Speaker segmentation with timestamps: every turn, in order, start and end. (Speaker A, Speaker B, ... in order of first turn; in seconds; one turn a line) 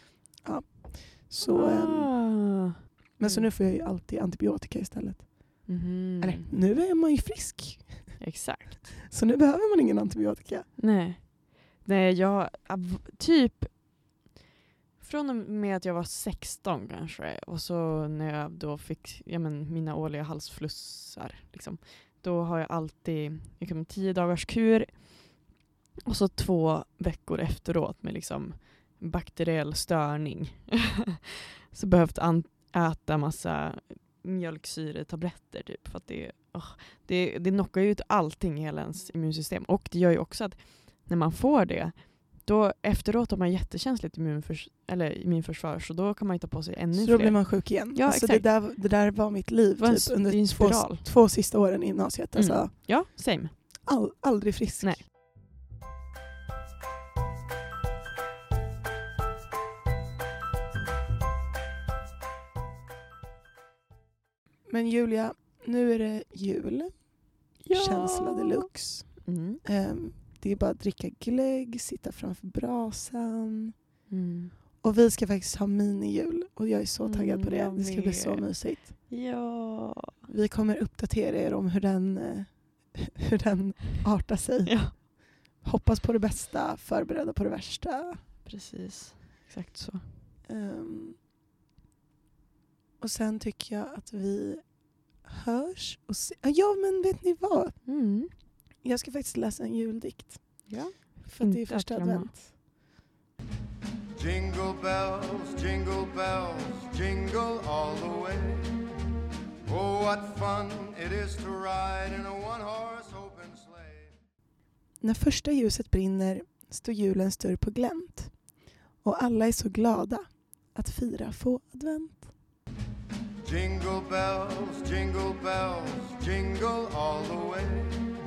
Speaker A: 0.4-2.1
Speaker B: 1.4-3.5
Speaker A: 3.2-8.2
Speaker B: 5.7-6.5
Speaker B: 8.2-9.0
Speaker A: 9.1-10.7
Speaker B: 10.8-13.8
Speaker B: 15.0-25.3
Speaker B: 26.0-31.2
Speaker B: 31.7-48.5
Speaker A: 46.9-52.7
Speaker B: 49.8-51.0
Speaker B: 52.3-53.8
Speaker A: 53.8-55.0
Speaker B: 54.8-55.0
Speaker A: 64.7-73.7
Speaker B: 67.6-68.7
Speaker B: 69.2-69.6
Speaker B: 74.1-74.5
Speaker A: 74.8-78.9
Speaker B: 77.0-80.2
Speaker A: 80.3-88.2
Speaker B: 84.7-85.0
Speaker B: 88.4-90.0
Speaker A: 90.5-91.2
Speaker A: 93.0-97.8
Speaker B: 97.8-98.3
Speaker A: 98.8-102.5
Speaker B: 100.7-102.4
Speaker C: 104.1-108.7
Speaker C: 109.6-114.1
Speaker A: 115.0-122.3
Speaker C: 123.4-128.0